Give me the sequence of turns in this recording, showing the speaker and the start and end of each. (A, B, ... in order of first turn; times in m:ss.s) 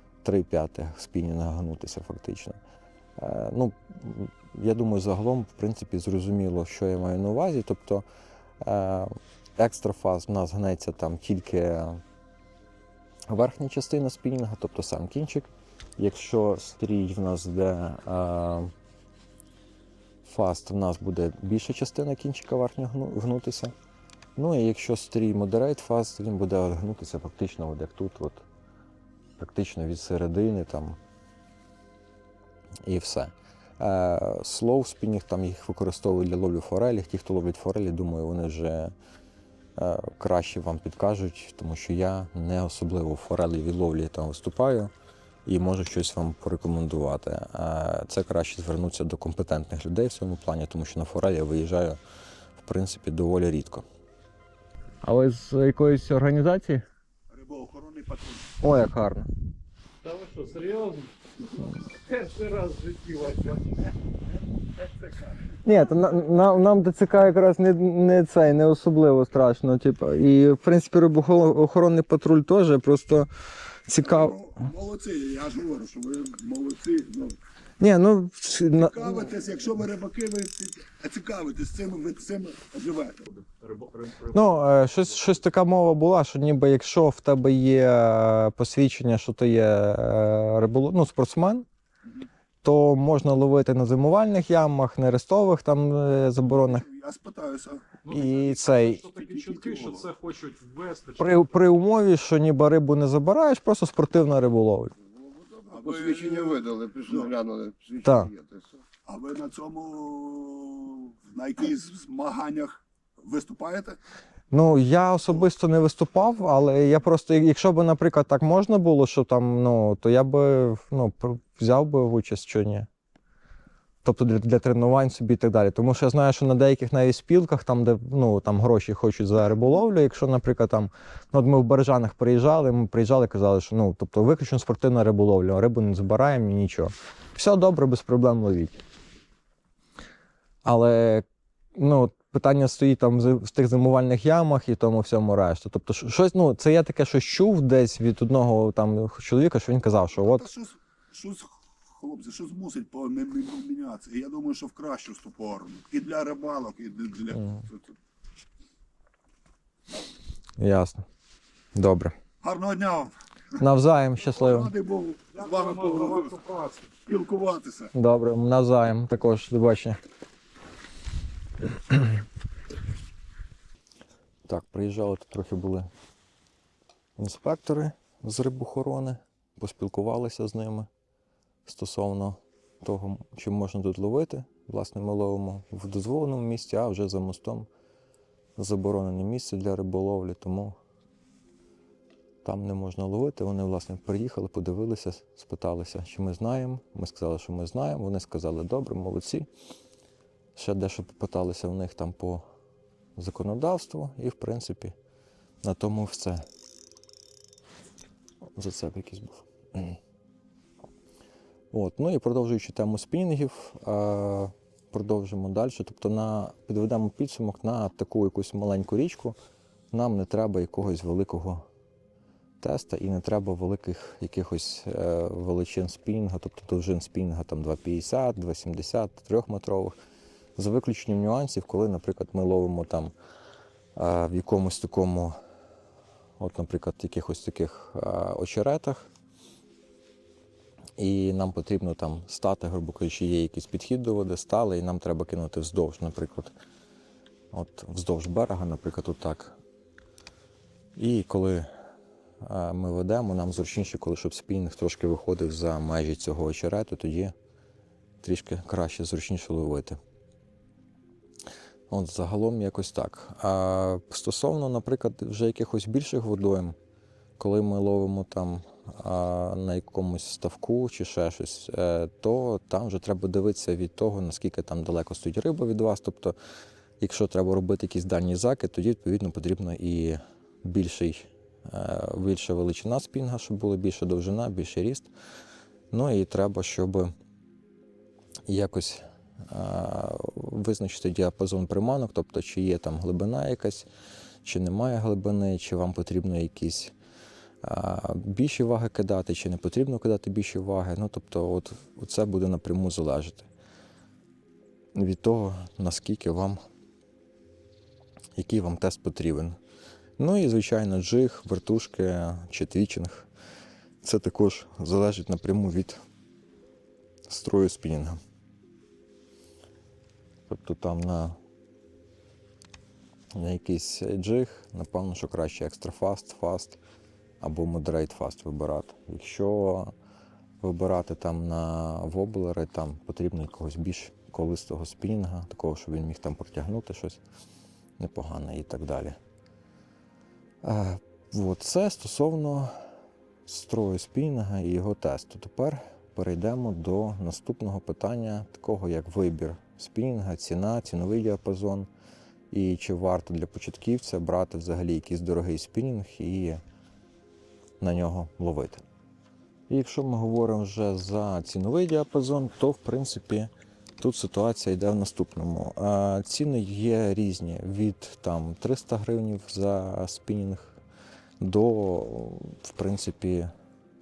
0:00.2-0:02.6 A
0:03.2-0:08.0 A
0:08.6-0:12.0 A
0:13.3-0:18.7 A
0:20.2-0:23.7 A
0:24.4-0:28.4 A
0:29.4-0:31.0 A
0:32.8-0:38.9 A
0:39.8-0:44.9 A
0:45.4-0:52.0 A
0:52.6-0:53.8 A
0:55.0-0:56.8 A
0:57.3-0:58.5 B
0:58.6-0:59.3 A
1:00.0-1:03.9 C
1:05.6-1:13.3 A
1:13.8-1:14.4 A
1:14.0-1:17.4 B
1:17.8-1:19.3 A
1:18.7-1:23.3 B
1:23.6-1:24.4 C
1:24.3-1:31.7 A
1:32.6-1:36.8 A
1:36.4-1:38.0 B
1:38.0-1:41.4 C
1:38.1-1:39.0 A
1:39.0-1:40.1 B
1:41.2-1:44.9 A
1:45.0-1:48.8 D
1:45.6-1:47.3 B
1:48.0-1:48.3 A
1:49.0-1:54.0 B
1:54.5-2:02.9 A
2:04.0-2:18.8 A
2:20.6-2:30.4 A
2:30.1-2:37.9 B
2:37.4-2:37.6 A
2:40.6-2:41.0 A
2:41.7-2:42.2 A
2:42.4-2:43.1 B
2:43.6-2:44.7 A
2:44.2-2:46.3 B
2:45.4-2:46.8 C
2:47.0-2:47.9 B
2:47.9-2:50.0 A
2:54.5-2:55.9 A
2:57.2-3:00.9 A
3:01.6-3:07.7 A
3:08.6-3:10.8 A
3:12.4-3:19.5 A
3:20.6-3:22.4 A
3:23.2-3:24.9 A
3:25.6-3:26.5 A
3:28.5-3:30.0 A
3:31.7-3:39.4 A
3:39.9-3:41.6 A
3:42.6-3:50.0 A
3:50.6-3:53.1 A
3:53.9-3:55.4 A
3:56.4-3:59.1 A
4:01.0-4:06.5 A
4:07.5-4:09.6 A
4:11.0-4:11.7 A
4:12.4-4:17.3 A
4:18.2-4:20.0 A
4:21.9-4:26.8 A
4:27.4-4:36.3 A
4:37.0-4:45.1 A
4:45.9-4:47.1 A
4:48.5-4:53.9 A
4:54.4-4:56.9 A
4:57.6-5:03.5 A
5:04.9-5:06.6 A
5:08.4-5:09.6 A
5:10.2-5:13.3 A
5:14.0-5:16.0 A
5:17.3-5:18.2 A
5:20.5-5:21.4 A
5:23.3-5:26.8 A
5:27.4-5:29.9 A
5:30.6-5:37.2 A
5:38.0-5:39.2 A
5:40.6-5:42.9 A
5:43.4-5:51.9 A
5:52.5-5:56.6 A
5:57.8-5:58.8 A
5:59.7-6:10.8 A
6:11.4-6:13.5 A